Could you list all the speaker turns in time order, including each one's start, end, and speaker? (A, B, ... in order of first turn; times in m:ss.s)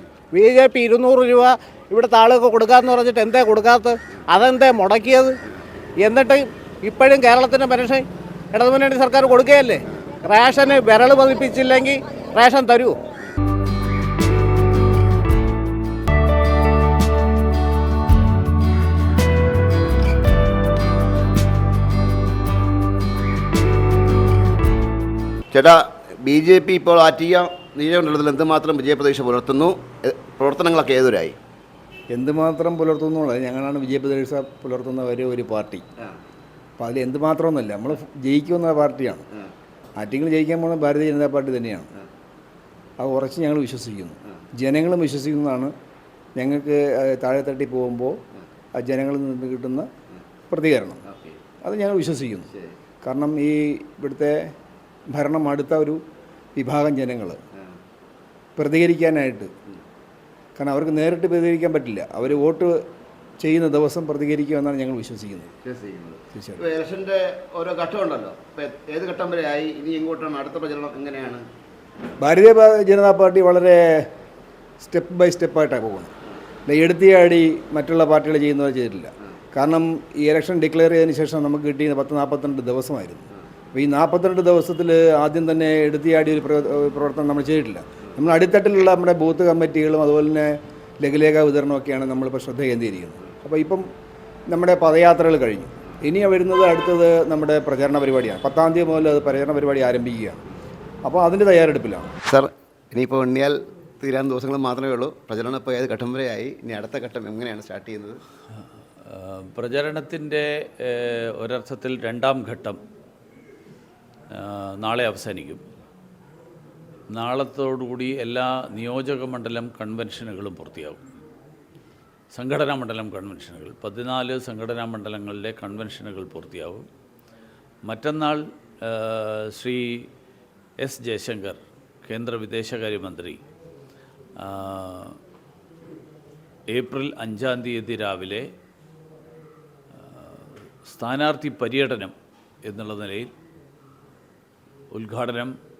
0:00.3-0:05.3 A
0:06.0-0:13.0 A
0:25.5-0:31.4 B
0:32.1-0:35.8 C
0:36.8-0:39.2 C
0:40.0-0:41.9 C
0:43.0-0:45.7 C
0:46.4-0:48.2 C
0:48.8-0:49.9 C
0:50.5-0:51.0 C
0:51.1-0:51.4 B
0:51.6-0:52.5 C
0:53.0-0:54.4 C
0:55.1-0:56.0 C
0:56.6-0:57.4 C
0:58.6-0:59.5 C
1:00.6-1:02.8 C
1:03.4-1:05.5 C
1:05.6-1:11.4 B
1:06.3-1:06.6 C
1:12.2-1:14.1 C
1:14.8-1:16.1 C
1:16.7-1:33.8 C
1:34.5-1:40.4 C
1:41.0-1:42.1 C
1:42.3-1:48.2 B
1:49.0-1:52.8 D
1:54.3-1:55.6 D
1:57.1-2:01.0 D
2:02.3-2:06.9 D
2:07.8-2:10.1 D
2:10.8-2:13.4 D
2:14.4-2:15.2 D
2:16.7-2:18.5 D
2:20.0-2:22.1 D
2:22.6-2:23.3 D
2:24.9-2:25.6 D